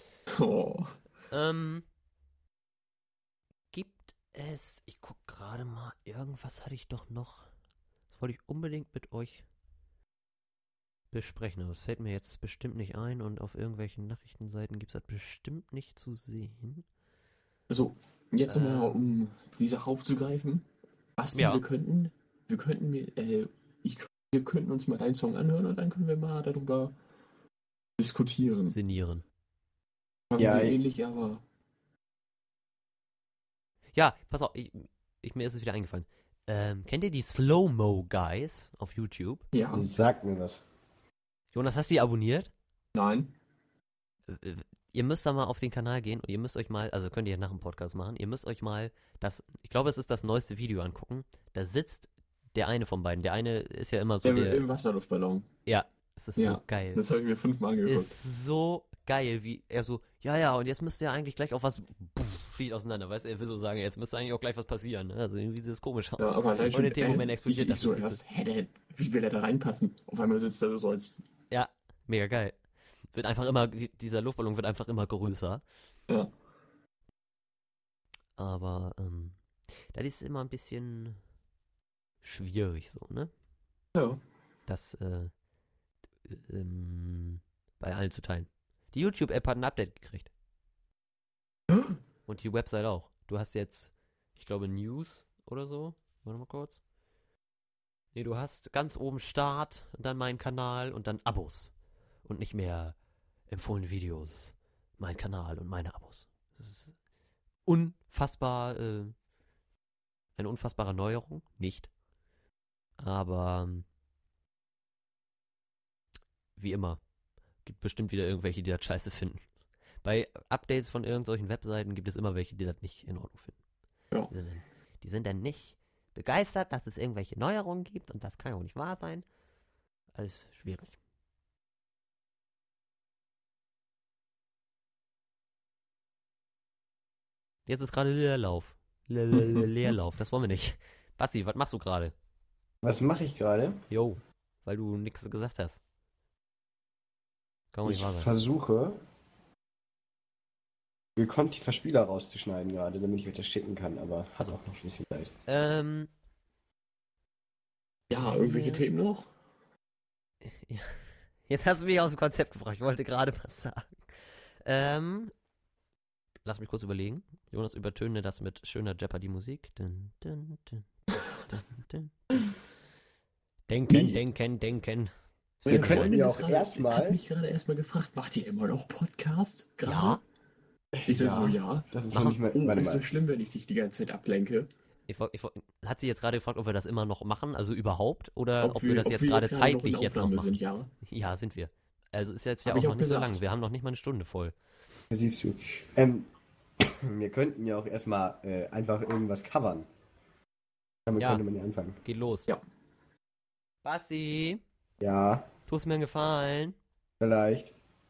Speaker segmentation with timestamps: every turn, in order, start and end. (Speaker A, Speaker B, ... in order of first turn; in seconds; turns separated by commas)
Speaker A: 0.3-1.0, Speaker B: 1.3-1.9, Speaker B: 3.7-7.5, Speaker B: 8.1-9.4, Speaker B: 11.1-16.9, Speaker A: 17.7-20.6, Speaker B: 18.5-19.0, Speaker A: 21.2-26.9, Speaker B: 21.3-21.6, Speaker A: 28.0-28.8, Speaker B: 28.7-29.2, Speaker A: 30.3-31.4, Speaker C: 30.4-30.8, Speaker B: 33.9-39.5, Speaker A: 39.5-39.9, Speaker C: 39.7-40.6, Speaker B: 41.5-42.5, Speaker A: 42.9-43.3, Speaker B: 44.3-54.6, Speaker A: 54.2-55.5, Speaker B: 55.7-57.0, Speaker A: 56.4-58.2, Speaker B: 57.8-68.2, Speaker A: 66.2-71.2, Speaker B: 71.5-72.6, Speaker B: 73.1-75.6, Speaker B: 78.4-79.4, Speaker B: 79.9-81.2, Speaker B: 82.2-83.3, Speaker A: 84.0-84.2, Speaker B: 84.7-85.3, Speaker B: 86.2-90.3, Speaker B: 92.3-96.8, Speaker B: 98.1-101.7, Speaker B: 102.2-103.0, Speaker B: 103.5-107.0, Speaker B: 107.7-109.2, Speaker B: 110.4-111.9, Speaker B: 113.0-113.9, Speaker B: 116.6-117.0, Speaker B: 117.7-119.5, Speaker B: 120.0-123.6, Speaker B: 124.3-129.2, Speaker B: 130.1-131.0, Speaker B: 137.7-142.1, Speaker C: 142.8-143.8, Speaker B: 143.9-145.8, Speaker B: 147.7-148.3, Speaker C: 147.8-149.0, Speaker C: 151.2-155.3, Speaker B: 154.4-154.7, Speaker B: 155.5-156.1, Speaker A: 158.1-159.3, Speaker B: 158.1-158.8, Speaker B: 160.4-165.3, Speaker B: 166.4-172.5, Speaker B: 173.7-176.1, Speaker A: 173.9-174.2, Speaker C: 175.7-177.2, Speaker A: 175.7-180.2, Speaker B: 179.8-180.2, Speaker C: 180.9-183.1, Speaker A: 181.1-181.9, Speaker B: 182.1-182.4, Speaker A: 182.5-184.7, Speaker B: 185.1-194.6, Speaker A: 188.6-190.9, Speaker A: 192.7-193.4, Speaker C: 195.1-199.9, Speaker C: 201.1-202.0, Speaker B: 201.2-201.4, Speaker B: 202.0-202.5, Speaker B: 203.8-204.6, Speaker C: 205.0-205.5, Speaker B: 205.7-206.8, Speaker C: 207.2-207.7